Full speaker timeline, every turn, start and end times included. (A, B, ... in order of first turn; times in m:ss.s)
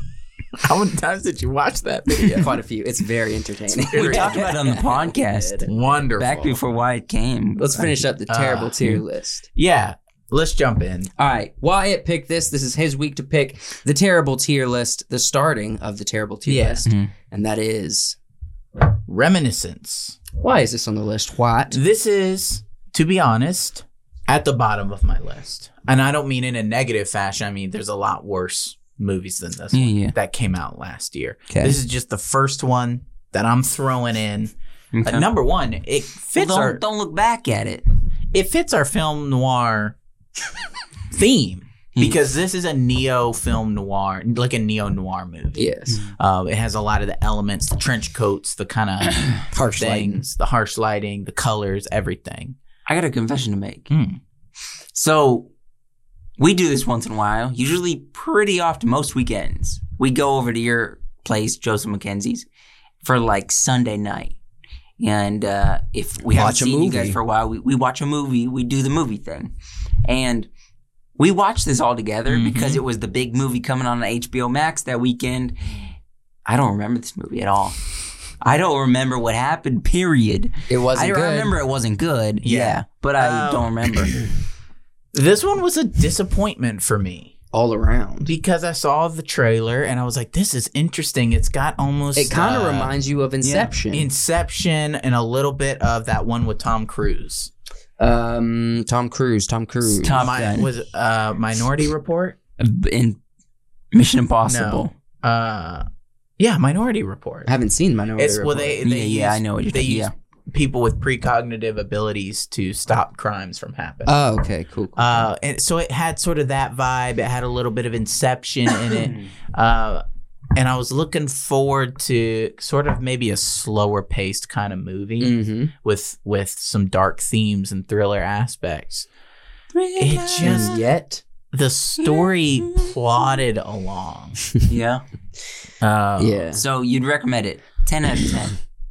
0:00.6-0:02.6 A
0:02.4-0:05.7 B
0:03.7-0:04.5 A
0:03.9-0:07.9 C
0:05.6-0:06.6 A
0:07.6-0:09.4 B
0:08.3-0:08.8 A
0:09.5-0:11.1 A
0:11.2-0:18.2 B
0:16.5-0:16.8 A
0:16.8-0:17.1 C
0:19.0-0:20.2 A
0:20.4-0:21.8 B
0:21.7-0:34.5 A
0:29.7-0:30.1 C
0:31.5-0:31.8 B
0:34.9-0:35.3 C
0:35.0-0:36.8 A
0:36.4-0:37.8 C
0:38.3-0:40.0 A
0:41.1-0:52.6 A
0:45.6-0:46.0 B
0:49.5-0:50.3 B
0:52.9-0:53.9 C
0:53.9-0:54.2 A
0:54.9-0:55.5 C
0:56.4-1:02.4 C
1:03.0-1:04.4 C
1:05.0-1:09.5 C
1:06.2-1:07.2 B
1:10.0-1:10.5 C
1:11.2-1:15.8 C
1:12.3-1:12.8 A
1:16.4-1:17.8 C
1:18.4-1:24.2 C
1:20.7-1:21.5 B
1:22.4-1:24.2 A
1:25.1-1:27.3 A
1:27.5-1:28.3 B
1:28.2-1:32.9 A
1:32.1-1:34.1 B
1:33.4-1:33.7 C
1:33.9-1:37.5 A
1:38.0-1:40.3 B
1:40.0-1:40.7 C
1:40.1-1:42.4 A
1:42.6-1:43.2 C
1:43.9-1:44.9 C
1:44.4-1:45.8 A
1:46.4-1:47.5 A
1:47.4-1:48.8 B
1:48.2-1:54.2 A
1:48.8-1:50.1 C
1:54.0-1:55.3 B
1:55.0-2:00.0 A
2:00.5-2:09.1 A
2:05.2-2:05.7 B
2:09.7-2:10.8 C
2:10.0-2:10.8 A
2:10.4-2:11.2 B
2:11.5-2:14.4 A
2:12.0-2:12.9 C
2:14.6-2:15.0 C
2:15.8-2:16.5 A
2:16.2-2:16.6 B
2:16.5-2:18.6 C